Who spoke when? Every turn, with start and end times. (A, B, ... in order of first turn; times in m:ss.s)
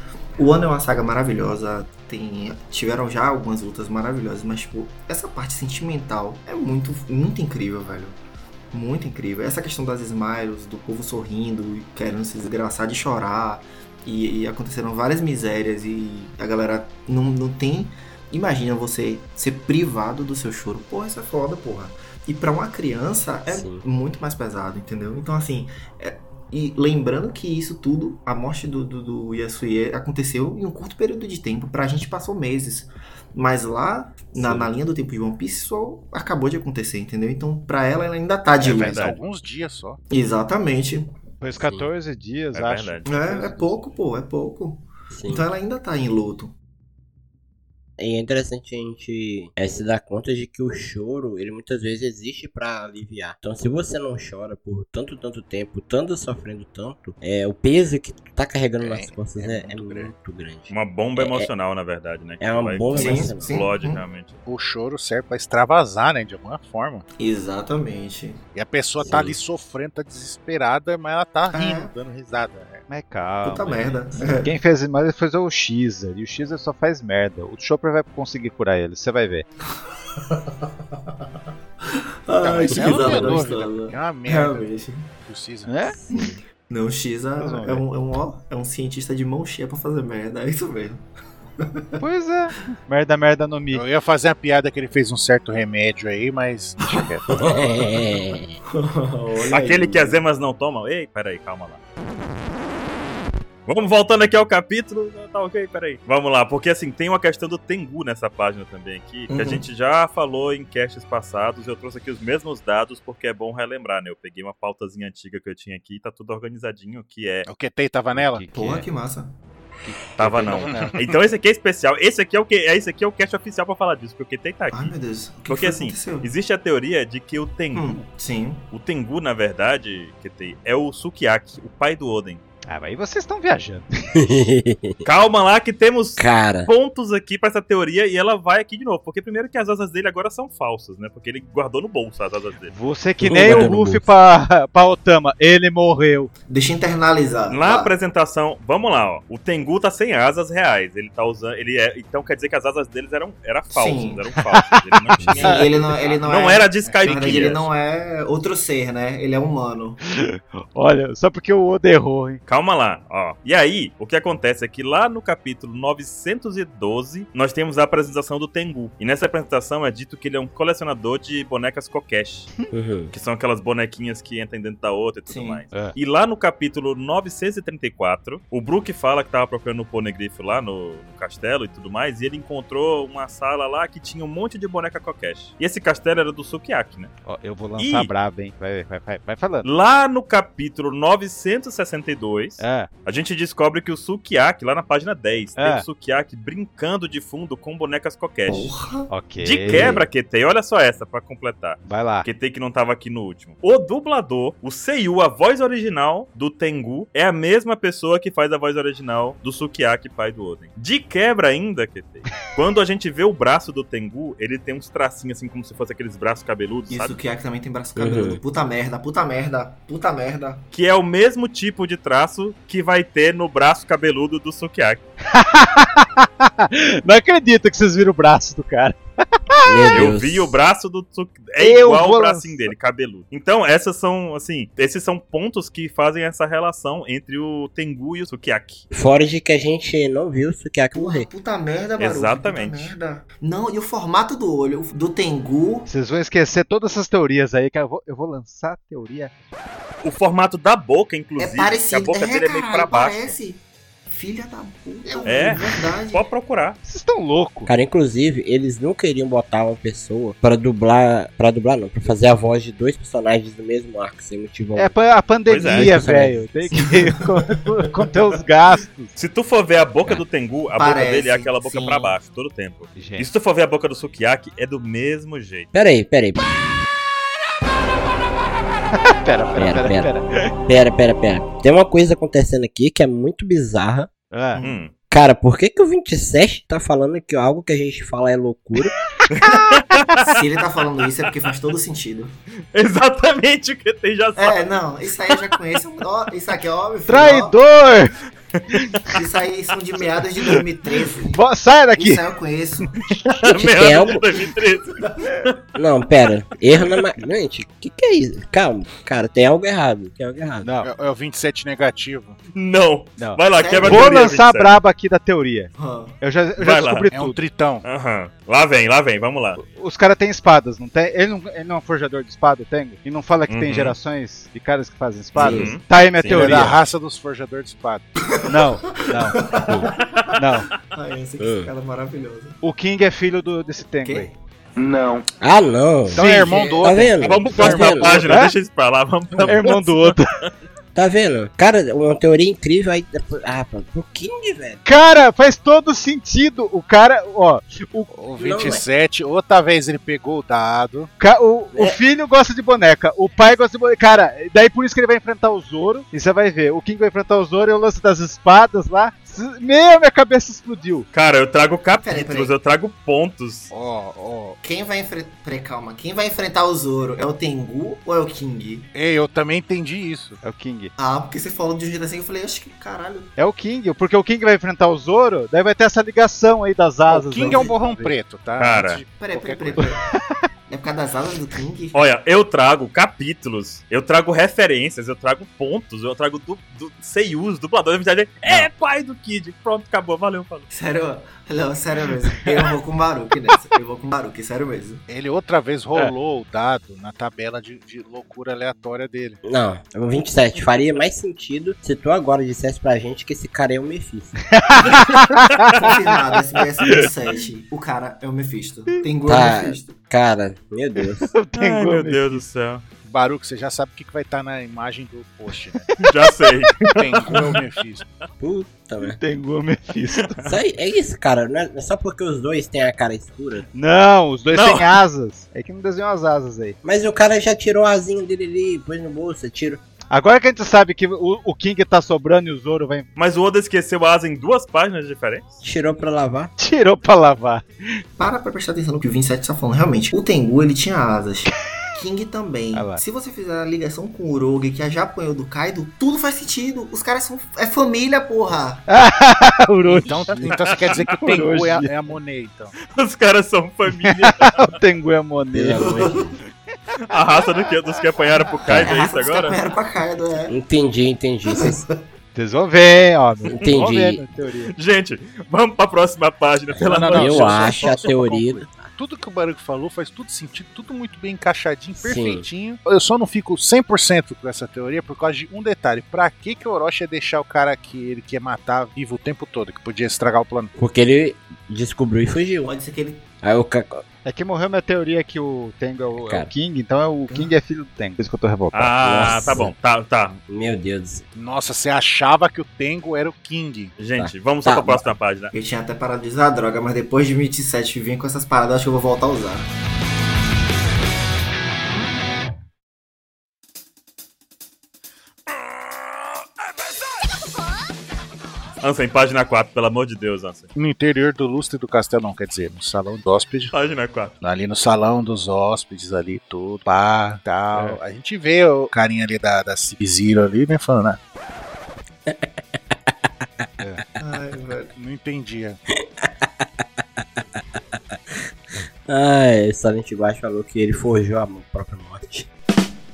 0:00.4-0:08.2 A
0:08.7-0:39.1 A
0:23.5-0:23.8 B
0:34.4-0:34.7 B
0:38.6-0:40.0 C
0:38.6-0:39.2 D
0:40.1-0:41.1 A
0:41.4-0:43.8 E
0:41.6-0:41.9 B
0:42.5-0:43.1 D
0:43.0-0:46.5 A
0:45.1-0:45.5 B
0:48.0-1:01.5 B
0:58.8-1:00.1 C
1:00.7-1:04.4 D
1:02.4-1:03.5 B
1:02.9-1:04.0 A
1:04.5-1:07.0 C
1:07.2-1:08.4 A
1:08.5-1:12.9 C
1:09.0-1:09.4 B
1:11.5-1:11.9 A
1:12.9-1:19.5 E
1:13.4-1:14.5 A
1:20.2-1:20.5 A
1:22.3-1:25.1 A
1:22.4-1:24.7 C
1:25.2-1:25.8 C
1:25.6-1:26.0 E
1:26.0-1:26.3 B
1:26.1-1:31.0 A
1:27.4-1:27.8 E
1:31.6-1:32.0 A
1:32.0-1:33.8 E
1:33.7-1:37.6 C
1:36.9-1:37.2 A
1:37.3-1:38.6 B
1:38.7-1:40.2 A
1:39.5-1:41.8 D
1:43.7-1:57.5 D
1:49.3-1:49.6 A
1:57.4-1:58.4 C
1:58.1-1:58.9 E
1:58.5-1:59.3 A
1:59.9-2:01.0 E
2:00.2-2:04.9 D
2:00.5-2:01.2 C
2:04.7-2:06.3 A
2:05.5-2:08.0 D
2:07.7-2:08.7 A
2:08.7-2:12.4 D
2:12.7-2:13.9 E
2:14.2-2:15.0 B
2:15.0-2:22.7 D
2:16.2-2:16.7 B
2:22.7-2:26.3 E
2:23.2-2:24.1 B
2:23.4-2:23.7 D
2:26.5-2:28.0 A
2:27.5-2:37.6 D
2:33.7-2:34.2 A
2:34.4-2:35.7 E
2:35.3-2:35.7 C
2:35.3-2:40.0 A
2:36.8-2:37.6 C
2:40.1-2:42.4 E
2:42.5-2:52.5 D
2:52.7-2:53.1 B
2:53.1-3:07.1 D
2:55.3-2:55.6 A
3:07.2-3:09.6 E
3:07.8-3:08.1 D
3:09.6-3:18.7 D
3:12.6-3:12.9 E
3:15.6-3:15.8 E
3:18.5-3:19.1 A
3:19.1-3:20.0 E
3:19.4-3:37.2 D
3:19.7-3:20.0 B
3:21.9-3:22.3 E
3:36.9-3:40.6 A
3:38.0-3:38.4 B
3:40.7-3:45.0 D
3:45.3-3:50.1 E
3:49.6-3:50.5 B
3:49.9-3:58.9 D
3:51.6-3:52.7 E
3:58.9-4:01.3 B
4:00.9-4:05.9 A
4:02.0-4:03.0 D
4:05.9-4:09.3 E
4:10.0-4:13.4 D
4:11.4-4:16.2 A
4:15.0-4:15.6 E
4:15.2-4:16.8 D
4:16.9-4:17.7 E
4:17.7-4:25.0 B
4:24.8-4:29.1 E
4:25.5-4:26.0 D
4:25.6-4:26.7 B
4:29.2-4:35.7 D
4:30.7-4:32.2 A
4:33.0-4:33.3 E
4:35.7-4:36.5 B
4:39.0-4:40.5 E
4:39.6-4:40.1 B
4:40.6-4:44.1 B
4:44.3-4:44.6 E
4:44.5-4:44.8 A
4:44.6-4:44.9 D
4:45.1-4:48.9 B
4:49.2-4:50.0 E
4:49.3-4:50.4 D
4:50.2-4:52.4 A
4:52.7-4:54.7 D
4:54.4-4:57.6 A
4:57.1-4:58.2 E
4:58.7-4:59.1 E
4:59.1-5:01.4 A
5:01.3-5:02.2 E
5:02.0-5:03.0 A
5:03.0-5:03.4 E
5:03.4-5:05.5 D
5:03.5-5:04.2 B
5:05.0-5:05.3 A
5:05.8-5:10.7 B
5:10.6-5:10.9 E
5:10.8-5:12.4 C
5:12.5-5:14.7 D
5:13.2-5:17.4 E
5:13.5-5:14.2 A
5:15.8-5:16.2 A
5:16.6-5:17.1 D
5:17.1-5:17.8 C
5:17.8-5:19.6 D
5:19.6-5:26.8 E
5:23.5-5:24.0 D
5:25.4-5:25.8 D
5:25.4-5:26.6 B
5:26.3-5:28.0 C
5:28.4-5:30.2 A
5:28.5-5:30.7 E
5:30.0-5:30.4 D
5:30.9-5:32.6 A
5:31.4-5:31.7 B
5:32.6-5:34.3 E
5:34.0-5:34.4 A
5:35.4-5:38.3 B
5:36.1-5:38.3 C
5:36.1-5:36.7 E
5:37.2-5:40.2 D
5:38.0-5:38.5 E
5:39.4-5:40.4 E
5:41.0-5:44.8 B
5:44.8-5:48.1 E
5:48.1-5:51.1 C
5:48.4-5:48.8 B
5:51.2-6:01.1 E
6:01.1-6:03.7 D
6:02.0-6:02.5 A
6:03.7-6:04.6 C
6:04.6-6:08.9 A
6:08.9-6:10.4 C
6:10.4-6:10.9 E
6:11.0-6:13.3 A
6:13.4-6:18.1 E
6:17.1-6:19.9 C
6:17.4-6:17.7 A
6:18.6-6:19.0 D
6:19.2-6:20.0 A
6:19.8-6:20.4 E
6:20.7-6:22.1 A
6:21.9-6:30.7 D
6:30.7-6:35.0 A
6:35.1-6:39.4 C
6:39.4-6:44.4 B
6:44.5-6:46.0 E
6:45.7-6:50.0 A
6:49.2-6:51.3 B
6:51.3-6:52.4 E
6:51.6-6:52.8 D
6:53.0-6:55.9 C
6:55.9-6:56.1 E
6:56.0-6:57.6 D
6:57.0-6:58.1 C
6:58.4-6:59.2 B
6:59.0-7:00.4 E
7:00.4-7:03.6 B
7:03.7-7:06.8 E
7:04.5-7:04.9 D
7:06.8-7:09.8 B
7:10.1-7:13.1 E
7:13.2-7:15.6 D
7:15.6-7:16.5 B
7:16.6-7:18.0 E
7:18.2-7:28.9 A
7:22.7-7:23.0 E
7:28.9-7:30.5 E
7:29.9-7:32.8 C
7:30.5-7:31.2 D
7:31.2-7:31.9 E
7:32.9-7:34.8 D
7:34.0-7:36.0 E
7:35.5-7:36.4 B
7:35.7-7:36.4 A
7:37.1-7:39.6 D
7:38.6-7:40.6 A
7:38.7-7:39.0 B
7:40.5-7:41.8 B
7:41.5-7:42.0 A
7:42.4-7:44.7 E
7:43.5-7:44.2 B
7:44.7-7:47.9 D
7:46.7-7:48.9 B
7:46.8-8:00.7 C
7:52.0-7:52.5 B
8:00.8-8:02.7 B
8:02.6-8:03.3 A
8:03.4-8:04.0 B
8:04.2-8:09.6 E
8:06.2-8:06.5 B
8:07.3-8:07.5 A
8:08.7-8:10.4 D
8:09.0-8:09.7 B
8:10.5-8:11.2 B
8:11.4-8:14.0 C
8:14.0-8:15.5 D
8:14.2-8:15.1 B
8:15.5-8:19.7 A
8:28.8-8:30.7 D
8:30.8-8:33.7 C
8:33.7-8:34.4 D
8:34.4-8:41.2 C
8:37.7-8:38.0 E
8:42.2-8:43.7 B
8:44.2-8:44.9 A
8:45.0-8:45.8 C
8:46.2-8:48.3 B
8:49.0-8:52.5 B